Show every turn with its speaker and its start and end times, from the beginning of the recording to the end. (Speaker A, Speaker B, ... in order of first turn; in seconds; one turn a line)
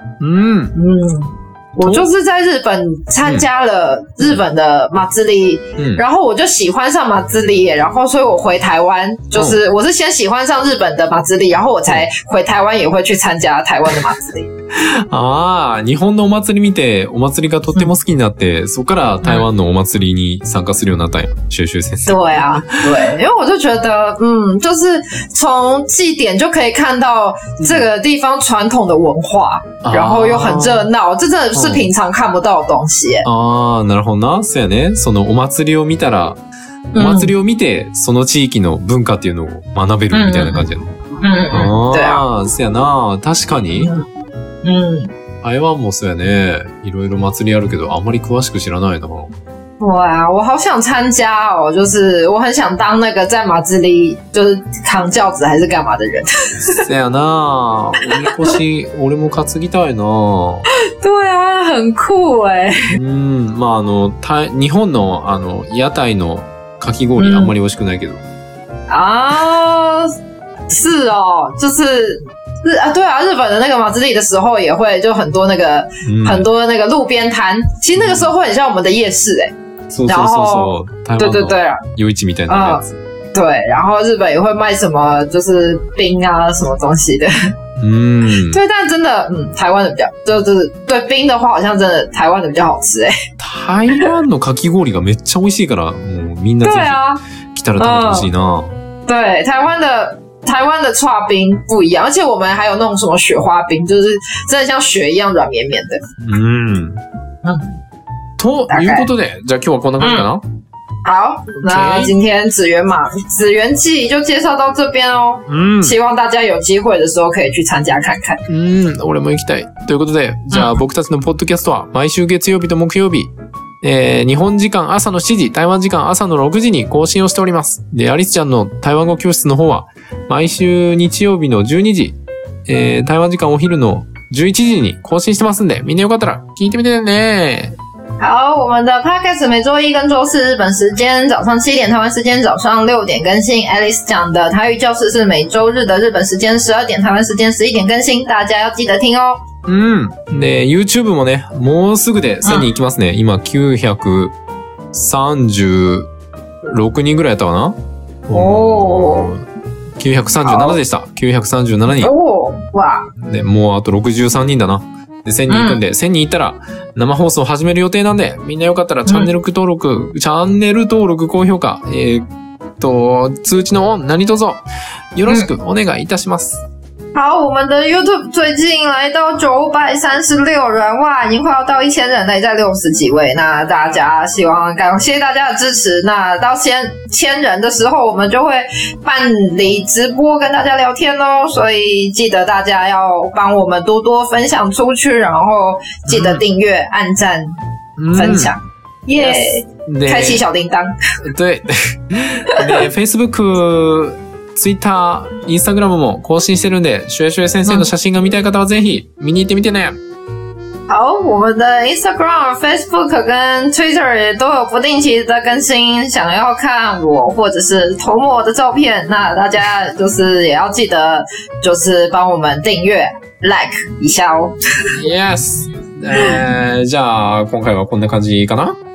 Speaker A: 0.2-0.8
Speaker B: 0.7-14.5
Speaker A: 5.8-6.0
Speaker A: 9.3-9.6
Speaker A: 14.7-23.1
Speaker B: 22.1-33.2
Speaker A: 27.6-27.8
Speaker A: 29.8-30.9
Speaker A: 31.5-31.9
Speaker A: 33.2-36.4
Speaker B: 36.9-37.3
Speaker A: 36.9-40.9
Speaker B: 40.1-40.7
Speaker B: 41.2-42.2
Speaker A: 41.5-43.9
Speaker B: 43.8-44.1
Speaker B: 44.6-45.1
Speaker A: 45.4-49.3
Speaker B: 49.8-56.8
Speaker A: 56.6-60.7
Speaker B: 58.1-58.5
Speaker B: 60.7-62.9
Speaker A: 62.9-68.2
Speaker B: 67.2-67.5
Speaker B: 68.9-70.1
Speaker B: 70.7-79.5
Speaker A: 76.0-76.5
Speaker A: 78.0-78.3
Speaker A: 79.9-83.0
Speaker B: 80.1-81.8
Speaker B: 82.5-87.5
Speaker A: 87.8-88.6
Speaker B: 88.3-93.1
Speaker A: 93.4-97.0
Speaker B: 96.6-97.2
Speaker A: 97.5-98.7
Speaker B: 97.8-98.3
Speaker B: 99.0-106.0
Speaker A: 106.2-107.0
Speaker B: 107.4-107.7
Speaker A: 108.4-110.4
Speaker B: 108.7-109.1
Speaker B: 110.0-110.3
Speaker B: 111.0-118.4
Speaker A: 111.5-112.1
Speaker A: 115.5-116.0
Speaker A: 118.5-123.3
Speaker B: 120.5-120.8
Speaker A: 123.8-137.7
Speaker B: 138.2-149.4
Speaker A: 149.7-154.3
Speaker B: 152.4-152.7
Speaker A: 154.9-156.1
Speaker A: 156.6-159.4
Speaker B: 158.3-159.3
Speaker A: 160.0-162.1
Speaker B: 160.4-160.8
Speaker B: 162.0-163.1
Speaker A: 163.2-172.2
Speaker B: 165.5-165.8
Speaker A: 172.8-174.6
Speaker A: 175.1-176.6
Speaker B: 177.1-197.6
Speaker A: 196.1-196.4
Speaker A: 198.0-198.6
Speaker B: 198.1-200.9
Speaker A: 199.2-200.4
Speaker A: 201.2-210.0
Speaker B: 202.5-202.8
Speaker B: 210.9-224.9
Speaker A: 224.9-228.8
Speaker B: 226.1-226.4